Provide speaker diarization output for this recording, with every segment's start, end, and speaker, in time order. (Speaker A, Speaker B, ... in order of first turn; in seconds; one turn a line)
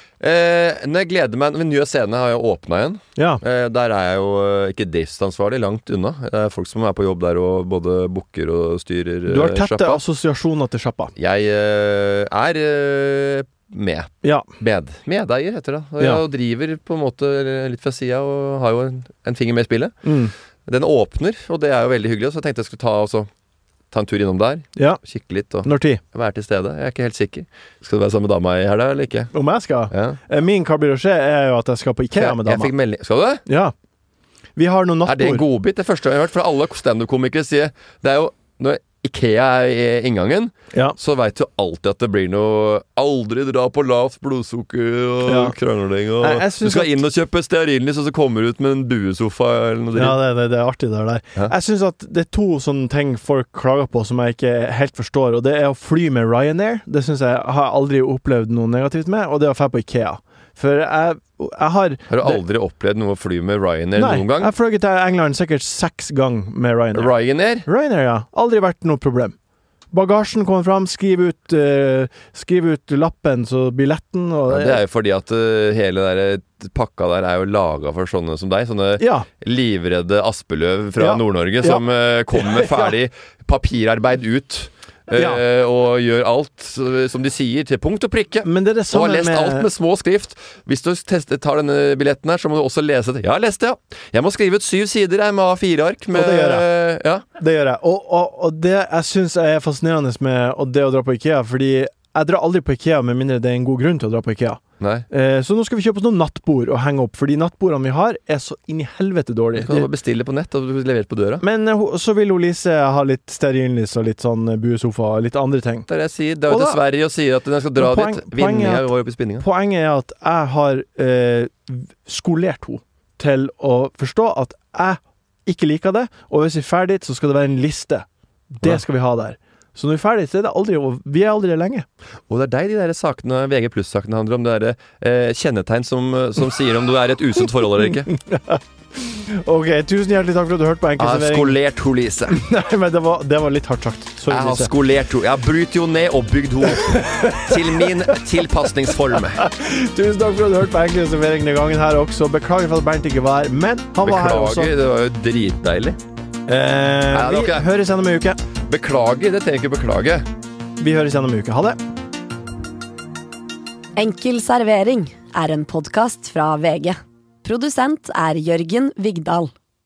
Speaker A: 0.2-10.0
Speaker B: 3.2-3.4
Speaker B: 9.3-11.1
Speaker A: 11.2-20.1
Speaker B: 20.0-20.3
Speaker A: 20.7-23.3
Speaker A: 23.9-29.3
Speaker B: 25.6-26.0
Speaker B: 29.3-32.7
Speaker A: 29.9-30.2
Speaker A: 32.1-33.5
Speaker B: 33.5-33.7
Speaker B: 34.6-35.5
Speaker A: 35.1-50.2
Speaker B: 45.3-45.5
Speaker B: 46.2-47.0
Speaker B: 50.0-62.4
Speaker A: 62.1-64.5
Speaker B: 64.0-67.1
Speaker A: 67.0-67.7
Speaker B: 67.6-69.4
Speaker B: 69.9-74.8
Speaker A: 74.5-97.2
Speaker B: 79.0-79.3
Speaker B: 81.0-83.0
Speaker B: 88.4-89.7
Speaker B: 96.1-96.7
Speaker B: 97.4-109.9
Speaker A: 104.8-105.1
Speaker A: 109.5-111.4
Speaker B: 111.4-115.9
Speaker A: 115.9-119.5
Speaker B: 116.5-116.8
Speaker B: 117.8-131.9
Speaker A: 132.3-138.1
Speaker B: 138.1-141.6
Speaker A: 141.0-142.4
Speaker B: 142.3-144.7
Speaker A: 144.3-149.4
Speaker B: 146.7-148.2
Speaker B: 149.4-154.7
Speaker A: 154.0-156.0
Speaker B: 156.5-158.4
Speaker A: 157.1-157.7
Speaker A: 158.7-160.3
Speaker B: 160.8-161.8
Speaker C: 164.0-169.5